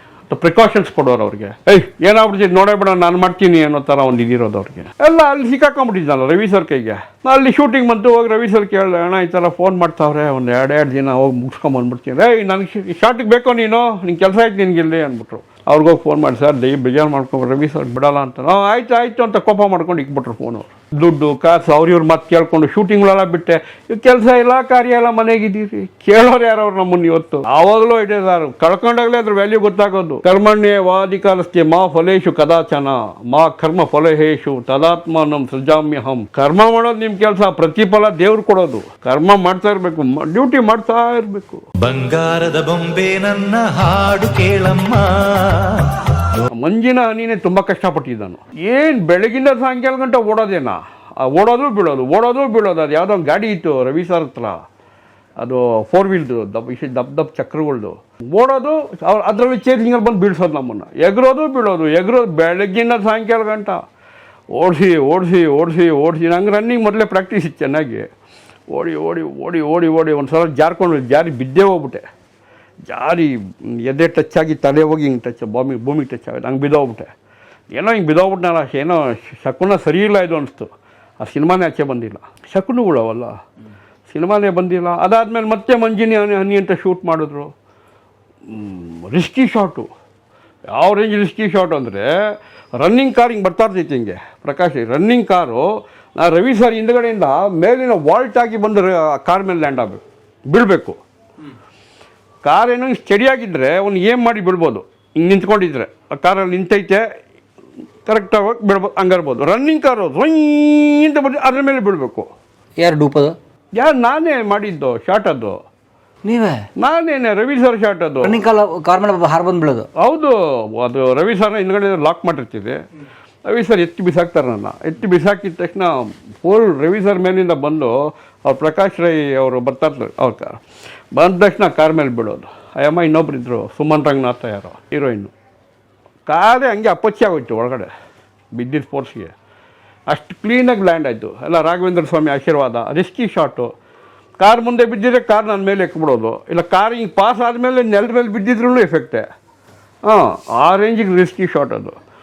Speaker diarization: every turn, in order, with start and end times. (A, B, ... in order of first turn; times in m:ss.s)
0:00.3-0:41.6 A
0:41.8-0:45.9 B
0:46.5-0:54.6 A
0:55.4-1:03.8 A
1:04.5-1:08.1 A
1:08.7-1:12.0 A
1:12.9-1:17.1 A
1:17.7-1:23.3 A
1:24.1-1:27.5 A
1:28.5-1:29.9 A
1:30.7-1:32.1 A
1:32.8-1:35.6 A
1:36.2-1:41.0 A
1:42.4-1:47.0 A
1:48.1-1:52.3 A
1:52.8-1:53.4 C
1:53.8-1:55.6 A
1:56.2-1:56.6 C
1:56.8-1:58.4 A
1:58.2-1:59.9 C
2:00.0-2:02.8 A
2:03.5-2:07.9 A
2:08.4-2:10.6 A
2:11.1-2:15.3 A
2:16.3-2:17.9 A
2:18.5-2:19.3 A
2:20.1-2:23.7 A
2:24.4-2:29.3 A
2:30.1-2:32.0 A